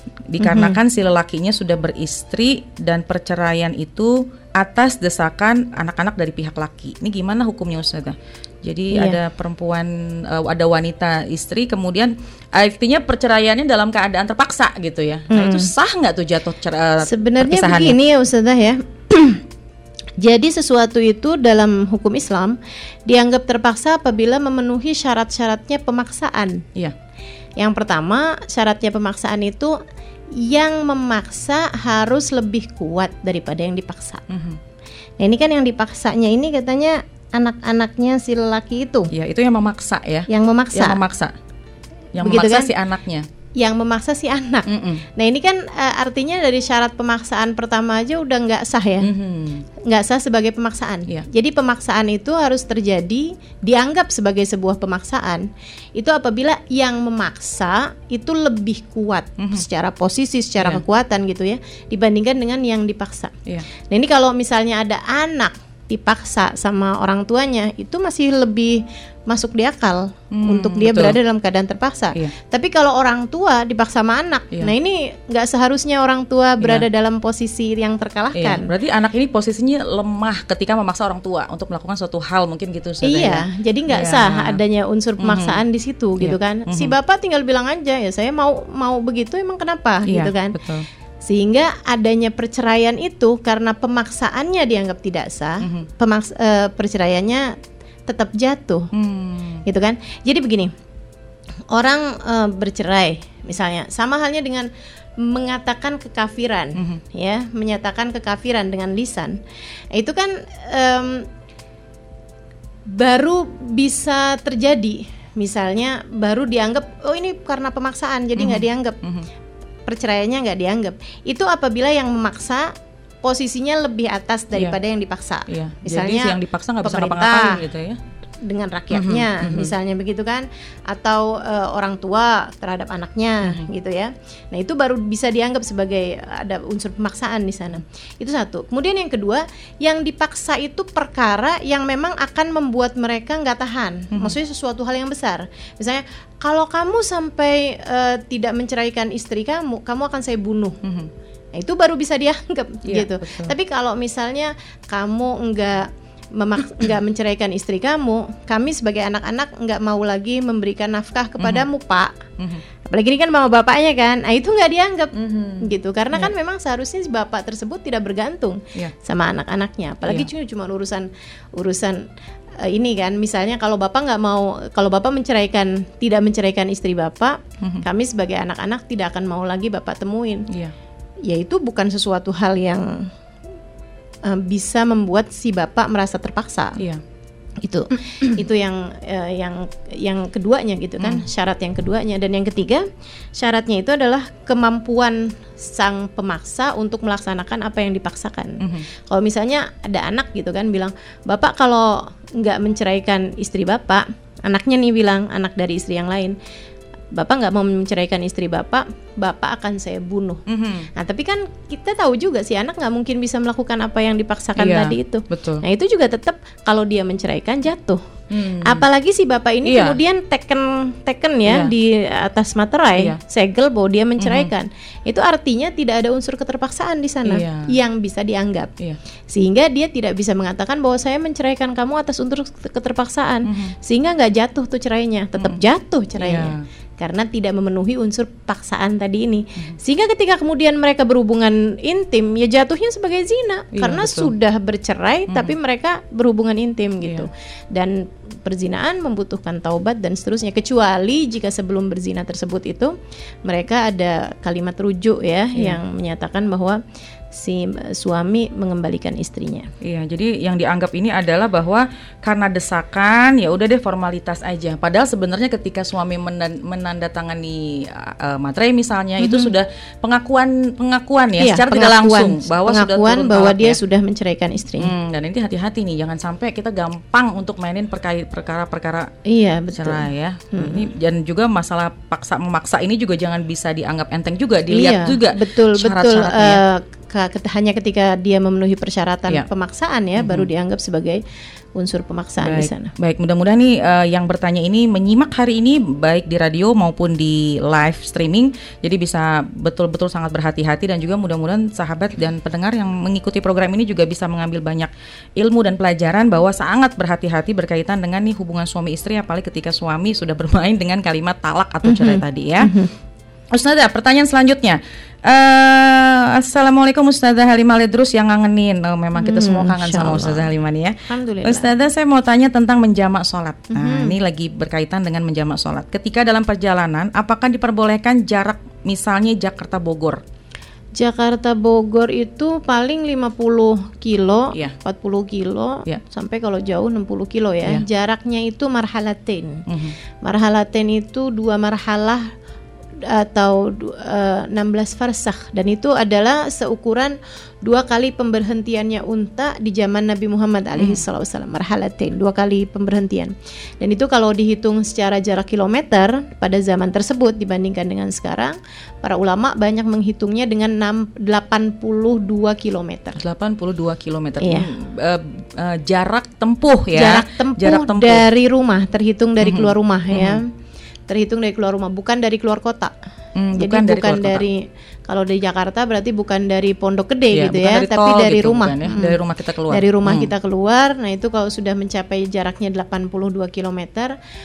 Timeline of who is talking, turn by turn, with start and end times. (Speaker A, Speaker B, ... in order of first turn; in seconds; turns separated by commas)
Speaker A: 0.3-18.0, Speaker B: 0.4-0.8, Speaker B: 8.9-9.2, Speaker B: 15.3-15.7, Speaker B: 17.0-19.4, Speaker B: 20.2-26.7, Speaker B: 27.6-29.8, Speaker B: 30.4-34.3, Speaker A: 34.3-34.6, Speaker B: 35.2-39.1, Speaker A: 39.1-41.3, Speaker B: 40.3-41.0, Speaker A: 42.1-43.3, Speaker B: 42.2-42.7, Speaker B: 43.6-49.1, Speaker A: 44.6-45.0, Speaker A: 49.0-49.6, Speaker B: 49.8-63.4, Speaker B: 63.9-78.7, Speaker A: 70.3-71.2, Speaker A: 76.6-76.8, Speaker A: 78.3-84.6, Speaker B: 83.0-90.6, Speaker A: 85.2-85.6, Speaker A: 86.2-86.9, Speaker A: 90.0-90.8, Speaker B: 91.2-97.5, Speaker A: 95.6-95.9, Speaker B: 98.1-98.9, Speaker A: 98.9-99.6, Speaker B: 99.7-100.7, Speaker B: 101.7-109.4, Speaker A: 106.8-107.0, Speaker B: 109.9-111.3, Speaker B: 112.9-119.0, Speaker A: 118.4-119.3, Speaker B: 119.9-122.7, Speaker B: 123.2-127.6, Speaker A: 125.5-128.0, Speaker B: 128.4-150.8, Speaker A: 128.9-129.7, Speaker A: 150.8-151.1, Speaker B: 151.6-162.1, Speaker A: 152.8-153.5, Speaker A: 161.4-161.7, Speaker A: 162.4-162.6, Speaker B: 162.9-172.1, Speaker A: 165.1-166.3, Speaker B: 172.6-180.4, Speaker B: 181.2-183.1, Speaker B: 184.2-186.8, Speaker B: 187.6-192.8, Speaker A: 191.0-191.2, Speaker B: 193.4-206.3, Speaker A: 198.6-198.8, Speaker B: 207.1-210.4, Speaker A: 210.5-210.9, Speaker B: 210.9-218.0, Speaker A: 214.6-215.6, Speaker A: 218.3-218.8, Speaker B: 218.6-228.7, Speaker A: 219.6-220.0, Speaker A: 221.4-221.7, Speaker A: 224.2-224.5, Speaker A: 227.2-227.7, Speaker B: 229.3-252.9, Speaker A: 233.4-233.7, Speaker A: 236.2-236.6, Speaker A: 243.7-244.3, Speaker A: 245.3-245.5, Speaker A: 247.0-247.3, Speaker B: 253.4-256.8, Speaker B: 257.3-259.7, Speaker A: 259.8-273.8, Speaker B: 269.2-269.5, Speaker B: 271.4-274.9, Speaker A: 274.8-279.1, Speaker B: 279.2-280.9, Speaker A: 279.7-286.6, Speaker B: 284.7-291.2, Speaker A: 290.2-290.5, Speaker B: 291.8-292.9, Speaker A: 292.4-312.7, Speaker B: 311.8-312.9, Speaker A: 313.5-330.2, Speaker B: 319.2-320.5, Speaker B: 321.1-321.7, Speaker B: 323.7-324.1, Speaker B: 330.9-339.6, Speaker A: 339.7-339.9, Speaker B: 340.2-342.3, Speaker B: 343.1-363.2, Speaker A: 363.2-368.2, Speaker B: 364.4-364.7, Speaker B: 366.9-370.5, Speaker A: 369.4-370.4, Speaker B: 371.1-372.9, Speaker A: 373.4-374.4, Speaker B: 373.6-379.2, Speaker A: 377.3-380.3, Speaker B: 379.7-384.1